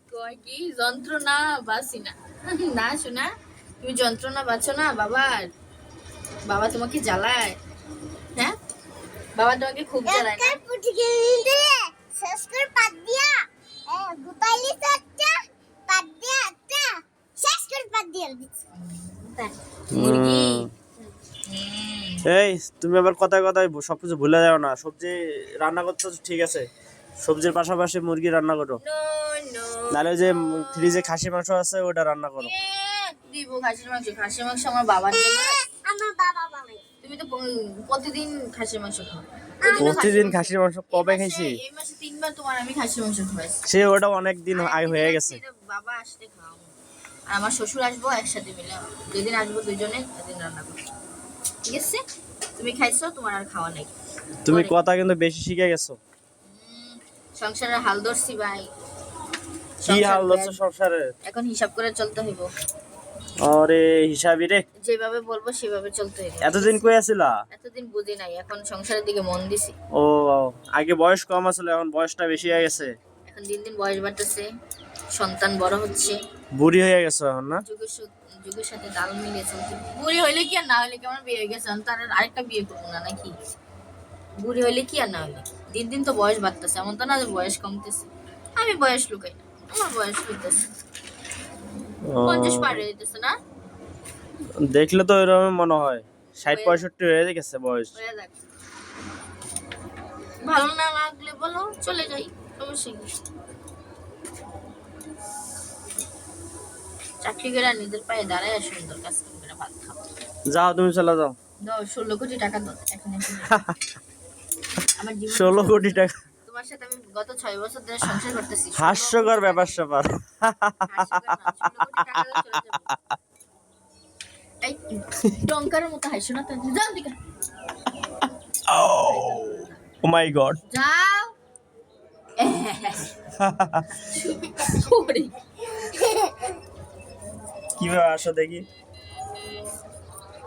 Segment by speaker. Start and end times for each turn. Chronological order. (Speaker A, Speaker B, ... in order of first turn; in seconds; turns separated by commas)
Speaker A: 0.1-5.5, Speaker A: 6.5-7.6, Speaker A: 9.4-10.6, Speaker B: 10.0-18.5, Speaker A: 18.7-19.3, Speaker C: 19.9-20.7, Speaker A: 19.9-20.7, Speaker A: 21.5-22.2, Speaker C: 22.2-26.6, Speaker C: 27.2-28.8, Speaker A: 28.8-30.8, Speaker C: 29.9-32.5, Speaker A: 32.4-35.6, Speaker B: 35.1-36.8, Speaker A: 37.0-43.8, Speaker B: 39.6-40.2, Speaker C: 39.8-41.5, Speaker C: 43.7-45.4, Speaker A: 44.5-46.7, Speaker A: 47.3-50.8, Speaker A: 51.6-52.0, Speaker A: 52.6-53.9, Speaker C: 54.4-56.0, Speaker A: 54.5-54.7, Speaker A: 56.4-58.7, Speaker A: 59.8-60.6, Speaker C: 59.9-61.1, Speaker A: 61.2-62.5, Speaker C: 63.4-64.6, Speaker A: 64.8-66.9, Speaker C: 66.4-67.4, Speaker A: 67.5-69.8, Speaker C: 69.9-72.9, Speaker A: 73.2-74.5, Speaker A: 75.1-76.2, Speaker C: 76.5-77.6, Speaker A: 77.6-83.3, Speaker A: 84.4-90.6, Speaker C: 92.1-92.8, Speaker A: 92.2-93.4, Speaker C: 94.7-97.9, Speaker A: 96.5-96.8, Speaker A: 97.9-98.4, Speaker A: 100.4-103.2, Speaker A: 107.2-110.0, Speaker C: 110.5-111.3, Speaker A: 111.6-113.7, Speaker A: 115.0-119.8, Speaker C: 115.3-116.2, Speaker C: 118.8-123.0, Speaker A: 120.8-122.9, Speaker A: 124.6-127.2, Speaker C: 128.7-130.6, Speaker A: 128.7-129.9, Speaker A: 130.7-131.3, Speaker A: 132.4-133.2, Speaker C: 133.4-133.9, Speaker A: 134.0-135.3, Speaker B: 135.9-136.3, Speaker C: 137.8-138.6